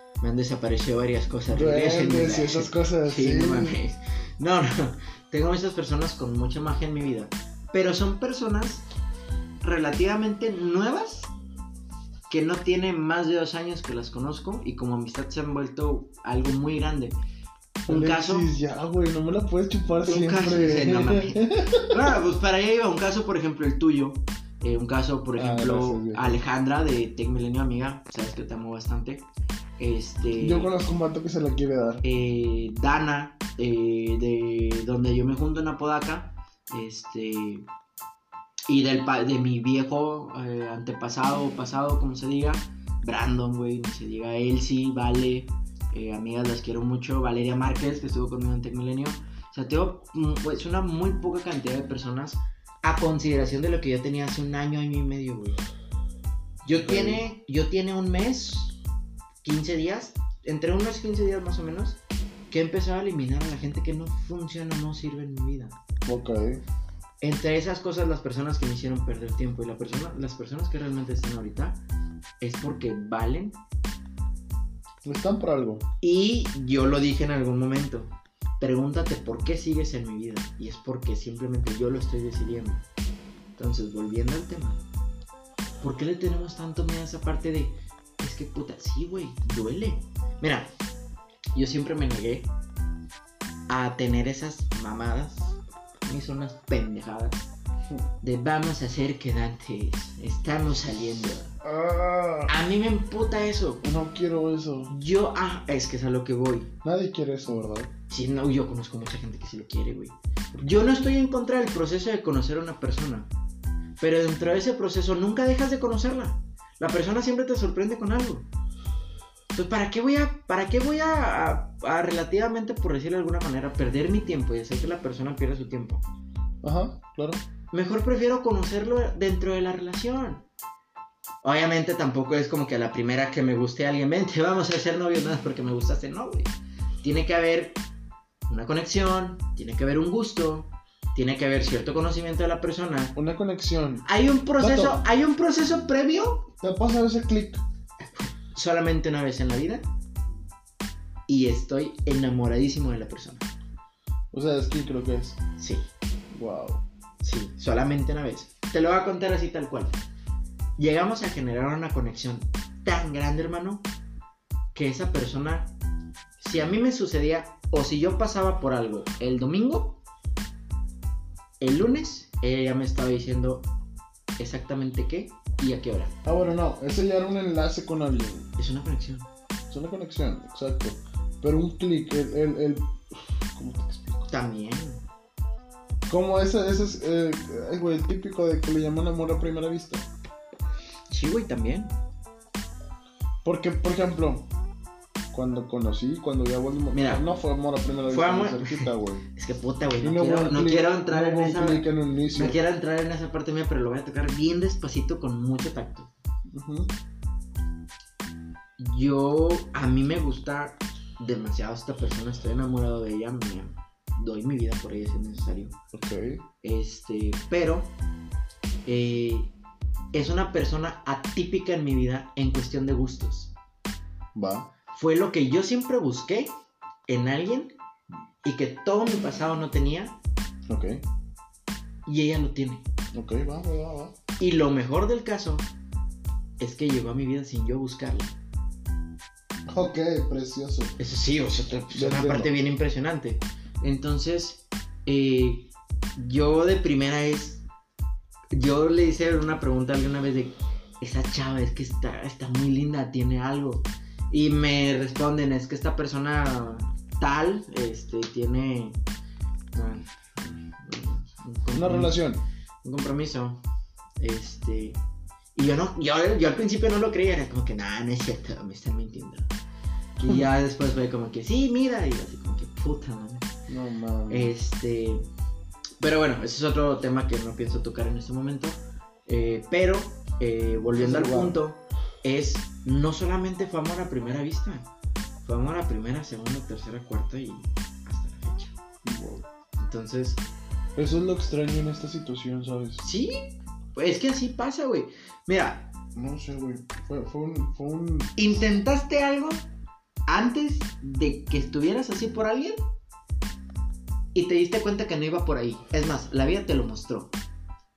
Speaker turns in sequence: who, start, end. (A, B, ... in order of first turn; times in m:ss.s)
0:00.2-0:08.8 A
0:01.5-0:03.8 B
0:09.6-0:11.3 A
0:12.3-0:17.2 A
0:17.9-0:18.5 A
0:17.9-0:22.1 B
0:20.1-0:29.3 A
0:25.4-0:26.3 B
0:29.8-0:30.7 A
0:30.4-0:32.0 B
0:32.0-0:37.7 A
0:38.7-0:55.6 A
0:56.6-0:58.8 A
0:56.7-0:57.2 B
0:59.4-1:05.8 A
1:06.1-1:06.6 B
1:07.2-1:11.8 A
1:12.4-1:13.6 A
1:15.0-1:15.8 B
1:16.0-1:22.9 A
1:23.6-1:24.8 A
1:25.8-1:30.7 A
1:31.6-1:32.5 A
1:33.7-1:37.5 A
1:38.2-1:41.6 A
1:41.6-1:42.5 B
1:42.5-1:43.8 A
1:43.8-1:44.9 B
1:44.9-1:46.8 A
1:46.8-1:47.9 B
1:48.1-1:53.3 A
1:50.5-1:50.8 B
1:54.0-1:58.5 A
1:59.5-2:06.0 A
2:06.6-2:07.4 B
2:07.7-2:10.5 A
2:11.4-2:17.8 A
2:18.5-2:23.2 A
2:23.2-2:24.1 B
2:24.0-2:26.5 A
2:24.6-2:25.0 B
2:26.6-2:27.6 B
2:28.1-2:29.9 A
2:31.3-2:33.5 A
2:34.3-2:35.4 B
2:35.6-2:35.9 A
2:36.3-2:36.8 B
2:37.2-2:40.0 A
2:40.8-2:43.9 A
2:44.7-2:45.7 A
2:46.4-2:50.0 A
2:51.6-2:53.7 A
2:54.4-2:56.2 A
2:56.2-2:58.5 B
2:58.6-2:59.3 A
2:59.7-3:04.3 B
3:04.2-3:05.0 A
3:06.1-3:10.1 B
3:11.1-3:12.0 A
3:13.4-3:14.5 B
3:15.3-3:19.2 B
3:16.9-3:17.3 A
3:18.1-3:26.1 A
3:20.0-3:22.6 B
3:26.5-3:26.9 B
3:28.8-3:35.8 A
3:35.9-3:36.4 B
3:36.6-3:37.9 A
3:38.9-3:39.5 A
3:40.1-3:43.5 A
3:44.4-3:44.7 B
3:44.9-3:46.6 A
3:47.1-3:47.7 A
3:48.4-3:50.2 A
3:50.7-3:51.0 B
3:52.1-3:52.9 A
3:53.1-3:54.2 B
3:54.4-3:55.7 A
3:56.6-3:58.4 A
3:59.7-4:01.0 B
4:01.0-4:07.6 A
4:01.9-4:02.5 B
4:08.5-4:19.0 A
4:19.7-4:22.2 A
4:21.7-4:22.4 B
4:22.8-4:23.6 A
4:24.2-4:25.0 A
4:25.6-4:29.5 A
4:30.2-4:30.5 B
4:30.2-4:33.5 A
4:33.7-4:34.5 B
4:34.3-4:35.2 A
4:36.0-4:44.9 A
4:41.0-4:41.6 B
4:45.4-4:48.8 A
4:49.0-4:49.4 B
4:49.8-4:50.4 A
4:51.0-4:53.0 B
4:53.0-4:53.4 A
4:54.0-4:55.9 A
4:56.2-4:58.6 B
4:58.4-4:59.7 A
5:00.3-5:02.8 A
5:04.4-5:07.3 A